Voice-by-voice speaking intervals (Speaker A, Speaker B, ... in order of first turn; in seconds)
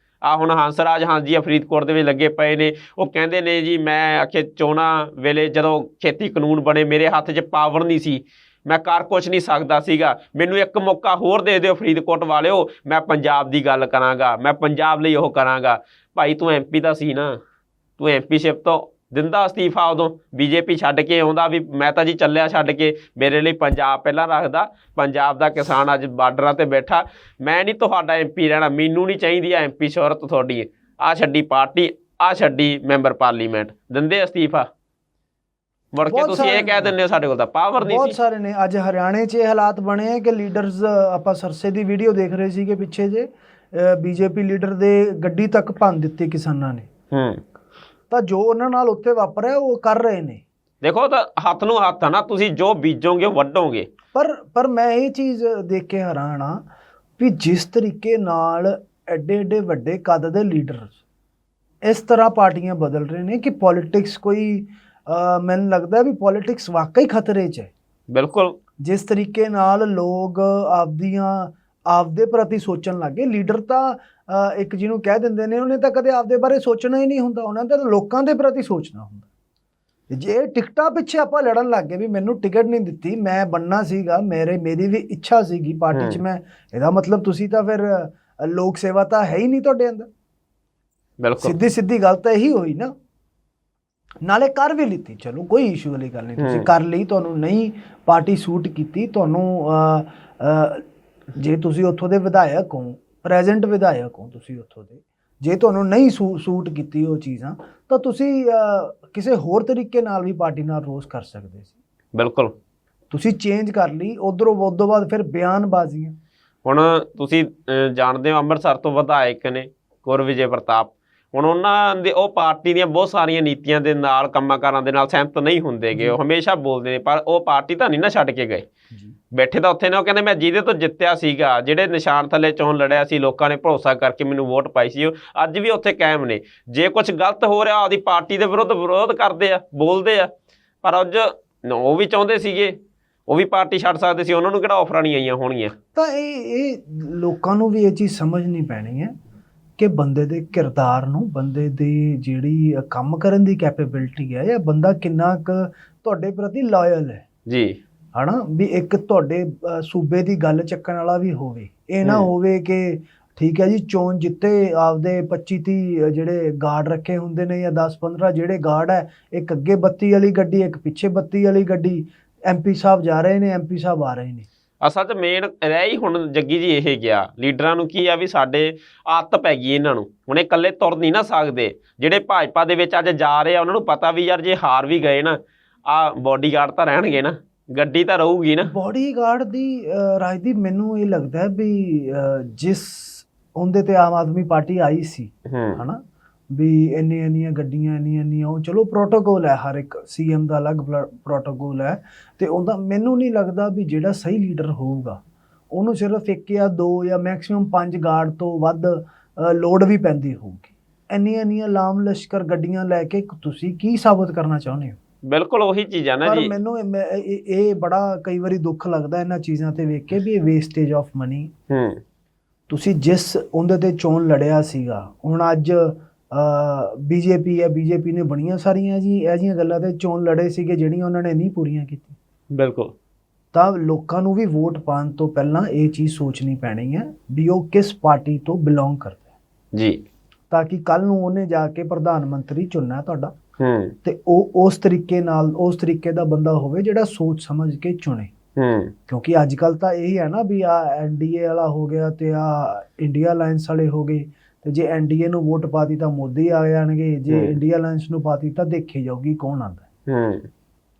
Speaker A: 0.2-17.4, 18.0-34.7, 35.9-38.1, 47.1-47.4, 50.8-53.9, 68.1-68.5, 85.9-86.2, 91.2-91.5, 96.4-96.7, 112.2-112.5, 116.6-128.7, 129.3-140.3, 140.8-142.7, 143.3-145.7, 157.5-157.8, 174.8-188.7, 195.5-195.8, 215.3-216.5, 221.7-222.0, 232.5-232.9, 239.7-240.0, 243.6-243.9, 248.6-248.9, 257.3-257.6, 260.1-260.5
Speaker B: 36.0-36.9, 37.8-46.9, 48.1-50.4, 54.1-56.6, 57.2-61.0, 61.8-67.7, 68.8-79.3, 80.1-90.1, 91.4-92.9, 94.2-100.8, 101.3-111.7, 113.1-116.2, 145.9-149.1, 149.8-157.2, 158.1-174.4, 188.6-205.2, 205.7-215.0, 216.2-221.5, 222.7-232.2, 233.5-239.2, 240.5-243.3, 244.0-248.3, 249.1-259.8